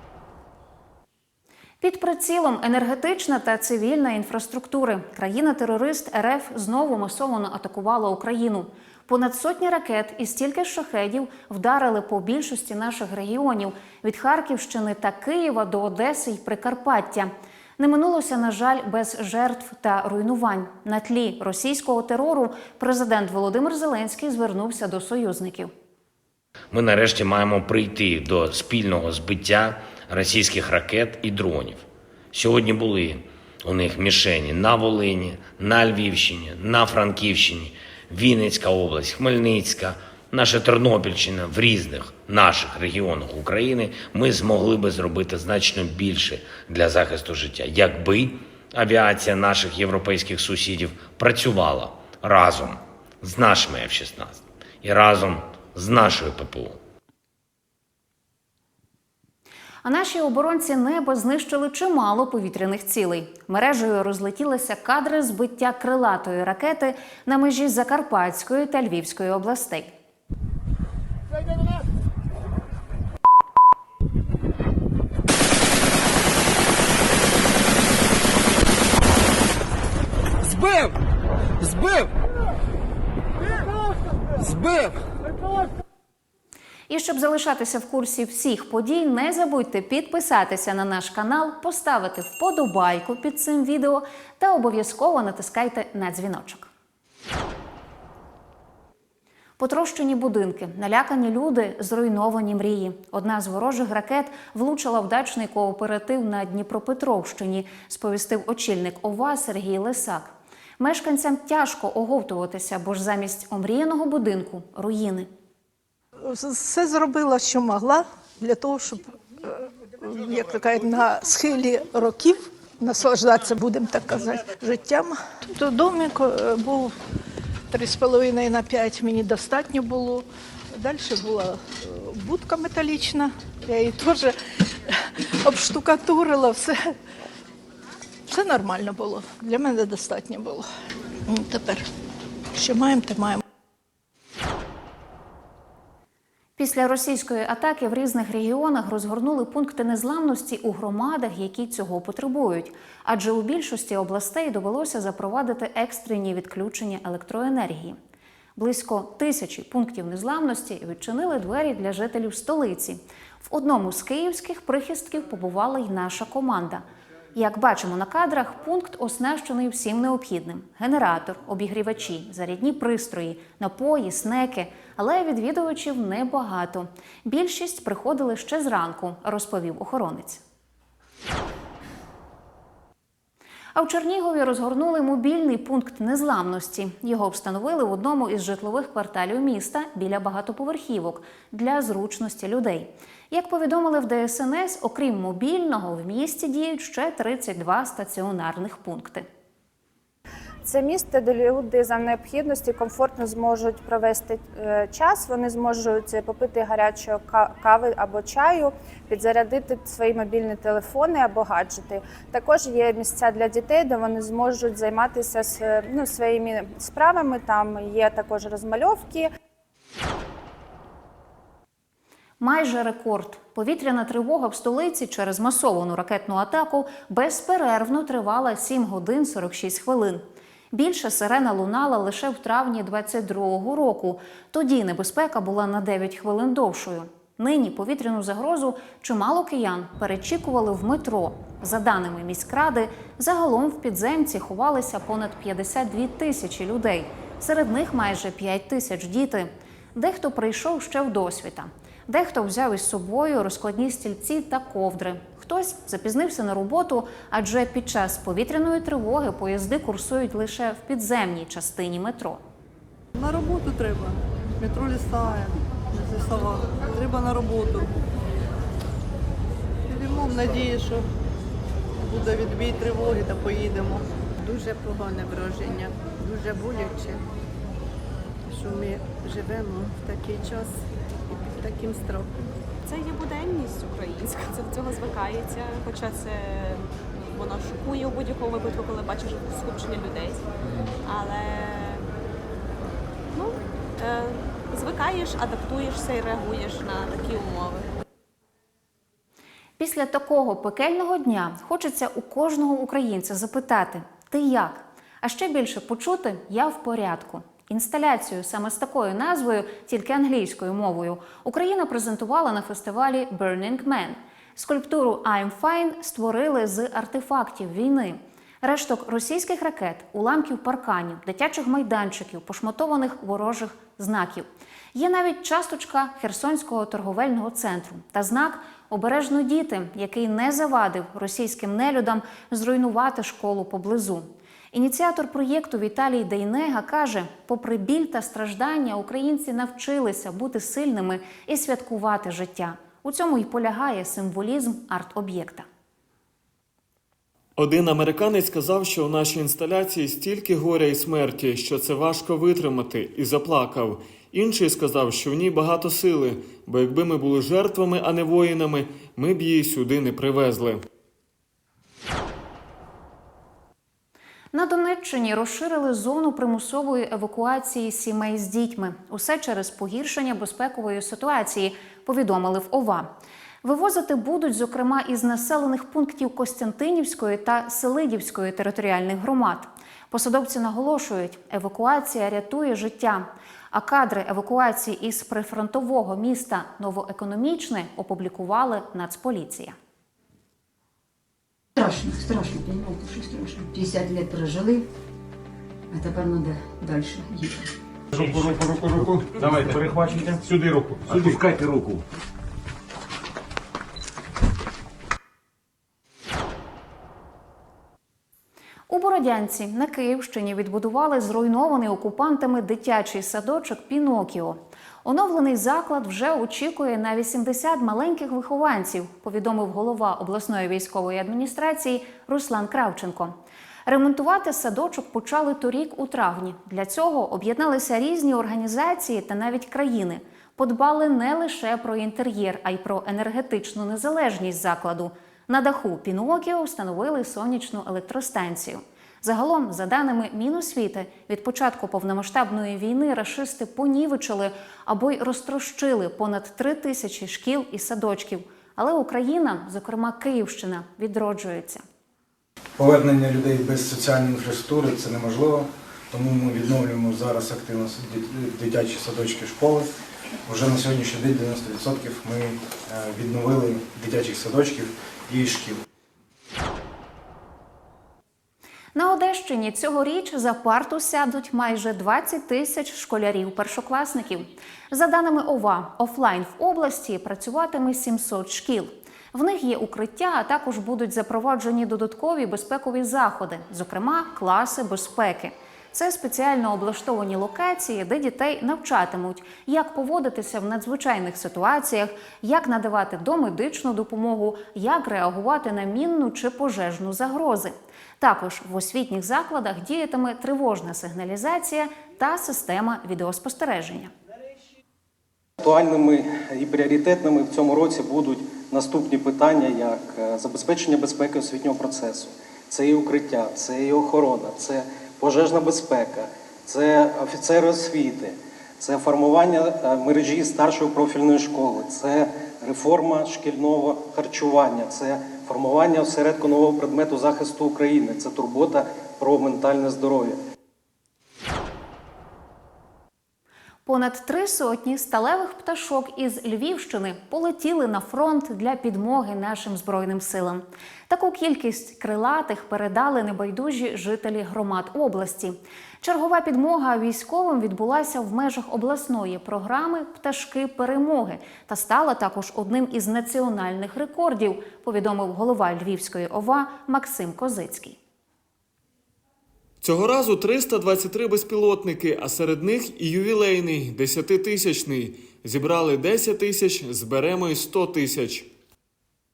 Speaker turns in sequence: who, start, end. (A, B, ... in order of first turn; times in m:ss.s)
0:01.8-0:25.7 A
0:26.7-0:56.8 B
0:59.8-1:09.9 A
1:26.9-1:36.7 A
1:39.6-1:55.3 A
1:56.4-1:58.9 C
2:00.2-2:04.2 C
2:00.3-2:01.6 D
2:04.1-2:04.9 D
2:04.7-2:06.9 C
2:07.7-2:10.2 C
2:08.1-2:09.0 D
2:10.8-2:11.5 C
2:12.2-2:14.3 C
2:12.5-2:13.0 D
2:15.5-2:16.7 C
2:18.3-2:20.5 C
2:19.0-2:19.4 D
2:20.1-2:20.6 D
2:21.3-2:21.8 C
2:22.6-2:23.4 D
2:22.6-2:23.3 C
2:26.6-2:38.0 A
2:38.6-2:46.8 A
2:47.4-3:00.4 A
3:03.7-3:19.2 A
3:20.6-3:39.3 E
3:42.4-4:22.4 A
4:23.2-4:27.9 F
4:29.8-4:31.0 F
4:32.0-4:34.0 F
4:34.4-4:37.2 G
4:38.5-4:40.7 G
4:41.3-4:42.3 G
4:42.8-4:50.4 H
4:51.0-4:52.0 H
4:53.3-4:57.9 H
4:59.8-5:45.6 A
5:47.6-6:00.8 I
6:04.5-6:13.1 A
6:13.6-6:29.7 A
6:31.8-6:34.8 D
6:35.9-6:37.7 D
6:39.1-6:40.5 J
6:41.1-6:42.0 J
6:48.9-7:03.3 A
7:03.8-7:31.8 A
7:32.8-7:39.9 K
7:40.4-7:45.8 K
7:48.9-8:24.1 A
8:25.6-8:50.4 L
8:53.8-9:18.0 A
9:19.8-9:28.5 I